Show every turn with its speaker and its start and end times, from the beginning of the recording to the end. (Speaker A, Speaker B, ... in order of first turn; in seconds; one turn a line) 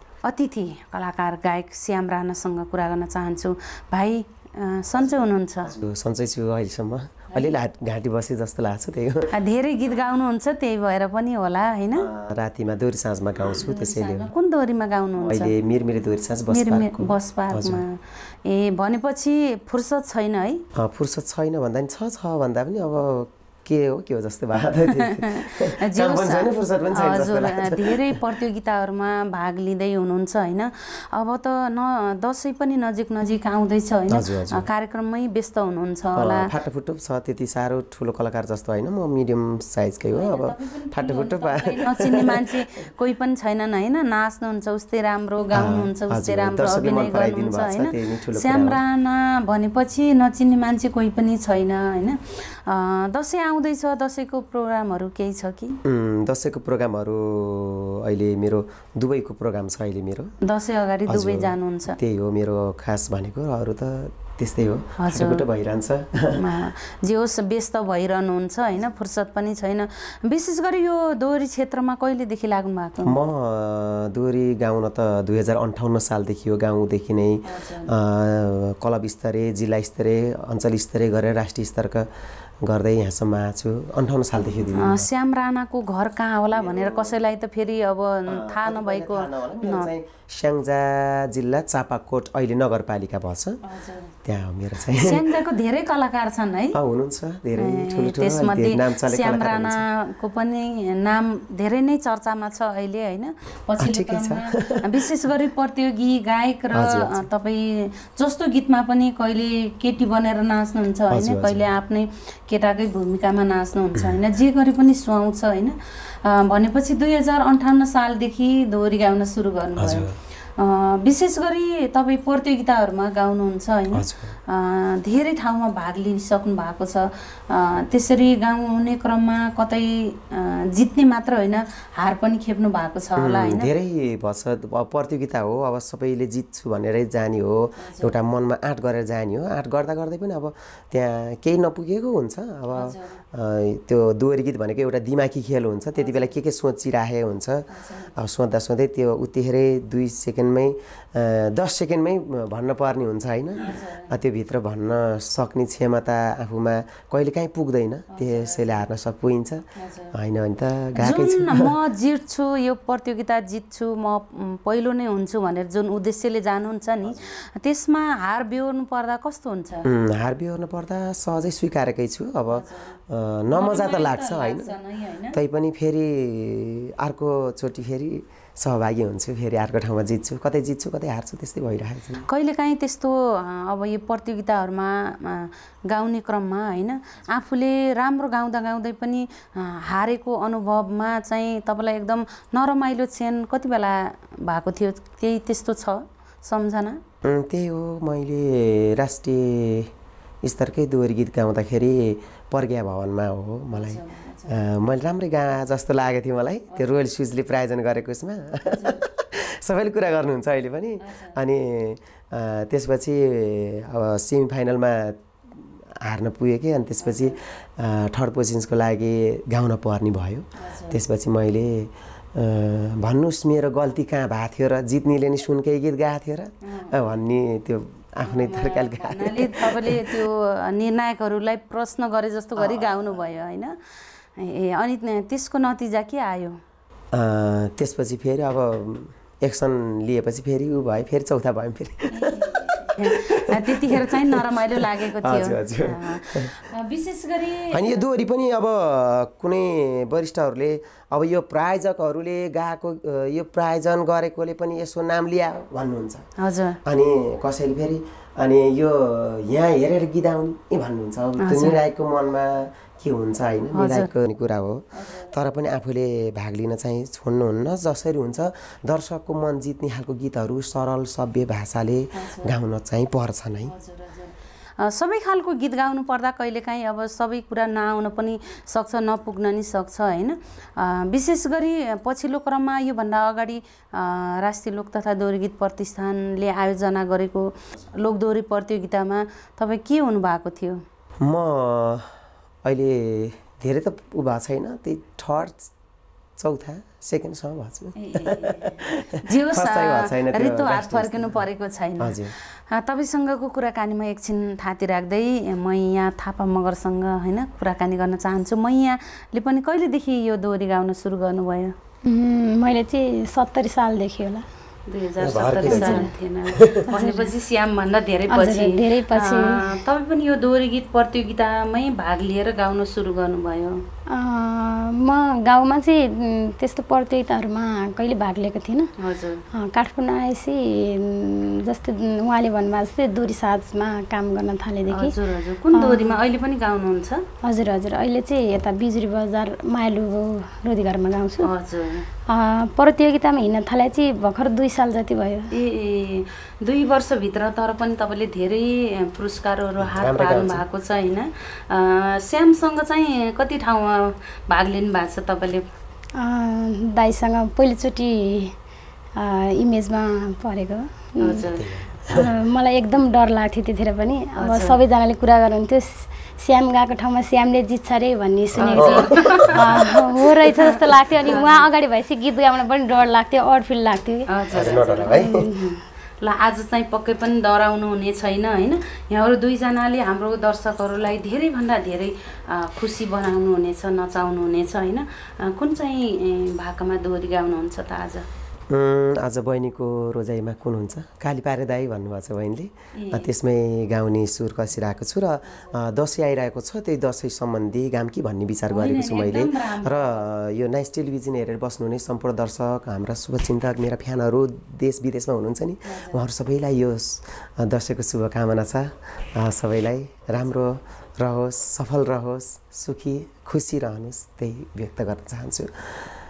Speaker A: 0.2-5.7
Speaker B: 5.0-9.3
Speaker A: 7.3-7.6
Speaker A: 9.3-12.1
Speaker B: 11.9-14.3
Speaker A: 13.5-15.5
Speaker B: 15.2-17.8
Speaker A: 16.5-20.6
Speaker B: 20.8-28.2
Speaker A: 24.9-36.5
Speaker B: 34.1-34.7
Speaker B: 36.1-42.5
Speaker A: 40.1-55.8
Speaker B: 45.5-48.8
Speaker B: 55.8-60.3
Speaker A: 60.4-62.0
Speaker B: 61.1-66.4
Speaker A: 65.0-65.5
Speaker A: 66.3-73.2
Speaker B: 73.0-82.1
Speaker A: 77.4-77.9
Speaker B: 82.6-85.1
Speaker A: 84.8-89.9
Speaker B: 86.5-87.2
Speaker B: 88.3-93.6
Speaker A: 93.6-94.2
Speaker B: 94.2-95.2
Speaker A: 94.9-96.8
Speaker B: 96.7-99.8
Speaker A: 97.6-133.7
Speaker B: 103.8-105.1
Speaker B: 106.7-107.2
Speaker B: 111.1-111.7
Speaker B: 119.8-120.2
Speaker B: 123.9-124.3
Speaker B: 133.2-161.7
Speaker A: 137.8-138.1
Speaker A: 142.7-143.2
Speaker A: 145.9-146.3
Speaker A: 147.7-148.1
Speaker A: 153.6-154.1
Speaker A: 158.1-158.8
Speaker A: 159.8-160.1
Speaker A: 161.0-169.9
Speaker B: 169.8-174.7
Speaker A: 172.5-173.0
Speaker A: 173.5-175.4
Speaker B: 175.3-182.3
Speaker A: 182.3-197.0
Speaker B: 197.2-199.9
Speaker B: 200.4-230.2
Speaker A: 203.7-204.5
Speaker A: 206.7-207.0
Speaker A: 208.6-209.0
Speaker A: 211.0-211.4
Speaker A: 217.0-217.4
Speaker A: 220.6-221.0
Speaker A: 226.6-226.9
Speaker A: 228.2-233.7
Speaker B: 232.6-233.1
Speaker A: 234.4-236.6
Speaker B: 237.1-246.5
Speaker A: 242.1-247.9
Speaker B: 247.7-256.2
Speaker A: 256.4-256.8
Speaker B: 256.8-273.7
Speaker A: 261.4-261.8
Speaker A: 263.7-264.1
Speaker A: 264.9-265.3
Speaker A: 272.1-272.5
Speaker A: 273.6-290.8
Speaker B: 291.2-292.1
Speaker B: 292.6-295.7
Speaker B: 296.4-301.4
Speaker A: 297.9-302.2
Speaker B: 302.0-302.3
Speaker A: 302.7-311.7
Speaker C: 312.1-314.4
Speaker A: 314.9-323.8
Speaker B: 315.2-316.9
Speaker C: 315.7-316.1
Speaker C: 316.9-317.3
Speaker C: 318.3-319.6
Speaker C: 324.1-328.9
Speaker A: 329.0-329.4
Speaker C: 329.5-335.1
Speaker A: 334.9-337.2
Speaker C: 335.7-336.2
Speaker C: 337.4-341.5
Speaker A: 341.4-342.1
Speaker C: 342.3-345.5
Speaker A: 345.5-355.6
Speaker B: 349.8-350.6
Speaker C: 356.1-358.6
Speaker C: 359.1-361.5
Speaker A: 361.2-361.8
Speaker B: 361.6-362.3
Speaker C: 362.1-374.3
Speaker A: 364.4-364.8
Speaker A: 368.6-371.6
Speaker B: 368.7-369.7
Speaker A: 374.3-388.2
Speaker B: 374.5-375.5
Speaker C: 375.1-375.7
Speaker B: 388.7-416.1
Speaker A: 392.9-393.3
Speaker A: 398.7-400.2
Speaker A: 405.8-406.2